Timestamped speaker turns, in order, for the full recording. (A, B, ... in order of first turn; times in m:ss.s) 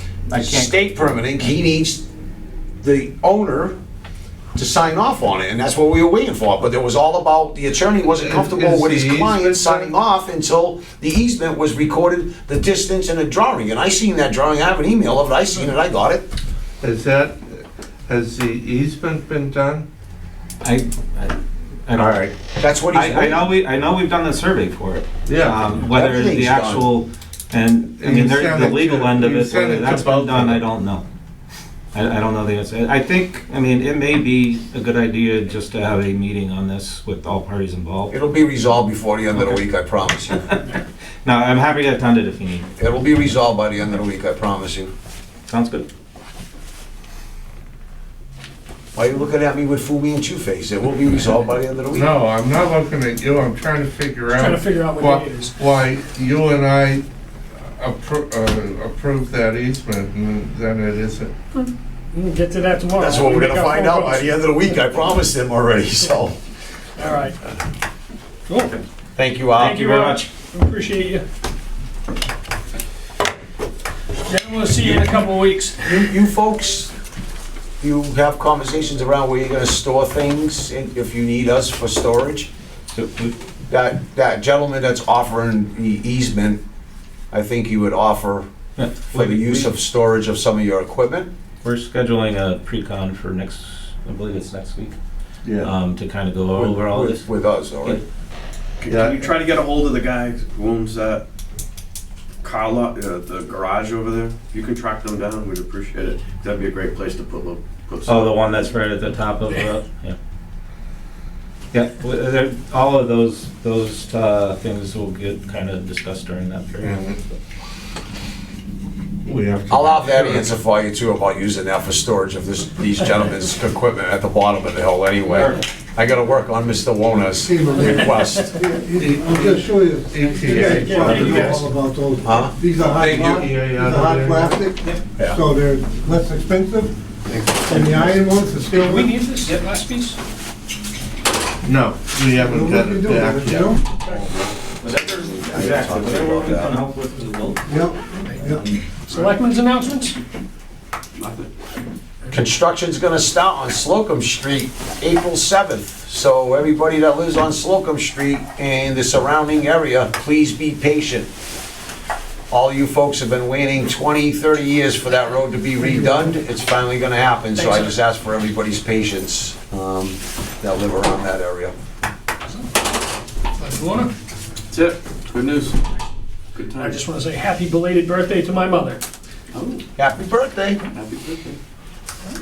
0:00.3-0:00.8 A
0:00.3-0:02.0 B
0:02.8-0:03.8 B
0:04.5-0:16.3 B
0:08.1-0:09.9 C
0:16.8-0:19.9 C
0:20.6-0:22.3 A
0:22.6-0:23.5 B
0:22.9-0:31.0 A
0:25.2-0:25.7 C
0:25.9-0:26.9 B
0:27.9-0:30.6 C
0:31.9-0:38.1 A
0:38.1-0:40.4 B
0:39.3-0:39.6 A
0:40.4-0:42.7 A
0:42.8-0:44.9 B
0:45.5-0:45.8 A
0:48.9-0:52.1 B
0:51.9-0:57.0 C
0:54.3-0:55.5 D
0:57.8-1:01.3 C
1:01.5-1:04.4 D
1:03.0-1:06.4 B
1:07.0-1:07.4 D
1:08.5-1:08.8 D
1:09.2-1:09.8 B
1:09.6-1:10.3 A
1:09.6-1:11.2 D
1:14.2-1:16.0 D
1:15.8-1:16.9 B
1:17.8-1:22.5 B
1:22.9-1:23.3 A
1:23.7-1:26.6 B
1:27.3-1:28.5 B
1:28.8-1:29.7 A
1:29.1-1:31.3 B
1:31.6-1:35.0 A
1:35.4-1:35.7 C
1:35.6-1:37.3 A
1:36.6-1:38.0 B
1:38.8-1:41.2 E
1:38.9-1:39.4 C
1:42.4-1:48.4 E
1:48.0-1:50.2 A
1:51.7-1:57.0 A
1:56.8-1:57.2 C
1:59.2-2:00.5 C
1:59.7-2:08.6 B
2:05.3-2:05.6 A
2:07.4-2:16.9 F
2:08.9-2:11.7 C
2:10.8-2:11.6 D
2:11.1-2:11.4 A
2:12.2-2:12.6 B
2:12.8-2:14.7 C
2:17.3-2:18.1 E
2:17.6-2:19.2 F
2:18.8-2:20.2 D
2:21.6-2:24.0 C
2:22.3-2:23.8 F
2:24.8-2:27.9 A
2:24.8-2:26.8 B
2:27.6-2:28.7 F
2:29.0-2:30.2 D
2:31.1-2:31.5 E
2:32.3-2:41.3 B
2:42.5-2:51.7 B
2:47.6-2:47.9 D
2:53.6-2:54.1 D
2:54.7-2:55.8 E
2:56.5-2:57.0 E
2:56.8-2:59.0 D
2:59.5-2:59.8 E
3:00.0-3:00.8 B
3:00.9-3:01.6 E